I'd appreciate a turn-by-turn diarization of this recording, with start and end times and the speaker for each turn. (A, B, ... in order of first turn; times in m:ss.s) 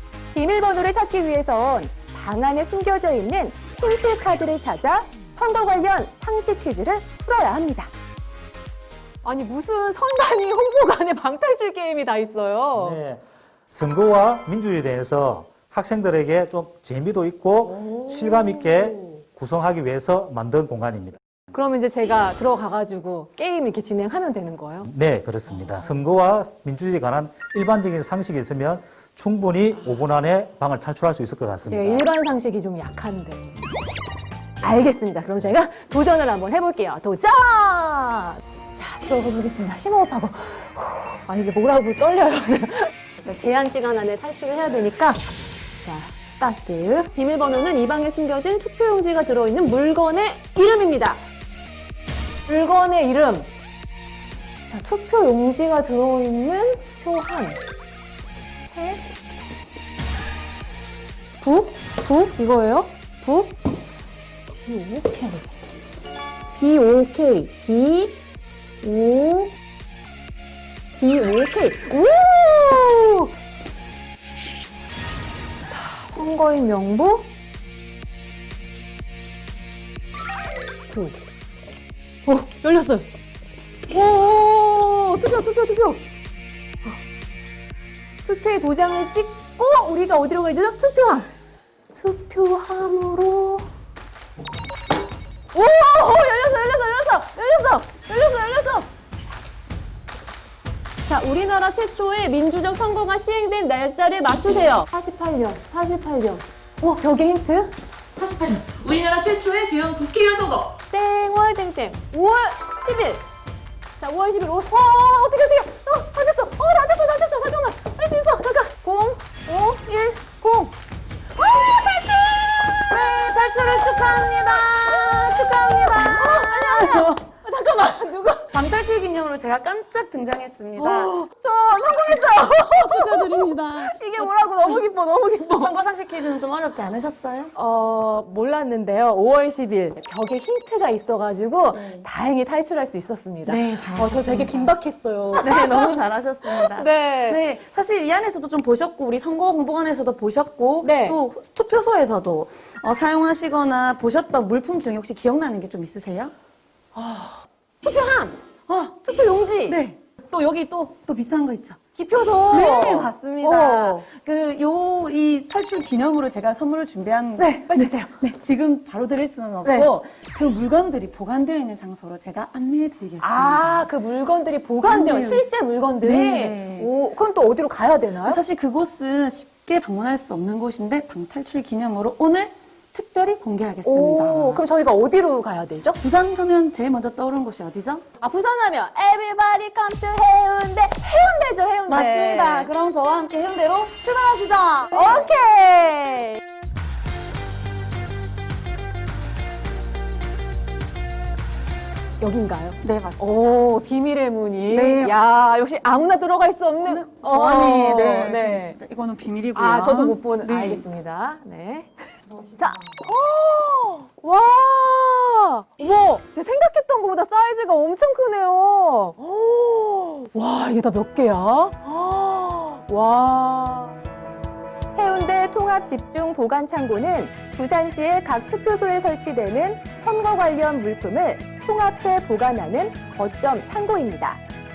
0:00.3-0:07.9 A
0:09.2-0:13.0 A
0:12.8-0:21.2 B
0:17.8-0:19.0 A
0:21.5-0:24.9 A
0:24.8-0:32.1 B
0:31.7-0:33.6 A
0:34.6-0:45.2 A
0:45.8-0:51.2 A
0:52.5-0:53.5 A
0:54.7-0:57.6 A
0:58.6-0:59.0 A
1:01.4-1:03.6 A
1:04.6-1:05.5 A
1:06.5-1:08.2 A
1:08.8-1:09.5 A
1:11.0-1:13.3 A
1:15.6-1:17.3 A
1:20.9-1:21.2 A
1:22.2-1:23.1 A
1:23.9-1:26.0 A
1:28.2-1:31.3 A
1:31.9-1:33.7 A
1:35.5-1:38.9 A
1:41.1-1:53.2 A
1:54.0-2:00.7 A
2:01.4-2:02.6 A
2:02.9-2:07.2 C
2:05.1-2:08.5 A
2:08.5-2:11.2 C
2:10.8-2:15.7 A
2:12.1-2:14.9 C
2:15.5-2:17.5 C
2:17.6-2:27.4 A
2:21.7-2:22.1 C
2:23.4-2:24.7 C
2:25.3-2:36.3 C
2:30.8-2:31.2 A
2:36.9-2:38.4 A
2:38.7-2:39.0 C
2:39.0-2:39.8 A
2:39.7-2:41.8 C
2:42.0-2:44.0 A
2:42.5-2:53.8 C
2:47.4-2:48.2 A
2:49.6-2:49.9 A
2:53.2-2:58.4 A
2:54.8-2:55.4 C
2:56.0-2:56.9 C
2:58.2-3:04.6 C
3:03.8-3:06.0 A
3:06.0-3:08.0 C
3:08.2-3:12.7 A
3:11.9-3:15.3 C
3:14.9-3:16.4 A
3:22.2-3:28.8 A
3:22.8-3:23.2 C
3:24.7-3:25.2 C
3:26.8-3:30.8 C
3:29.5-3:31.9 A
3:32.5-3:44.0 A
3:44.9-3:54.4 A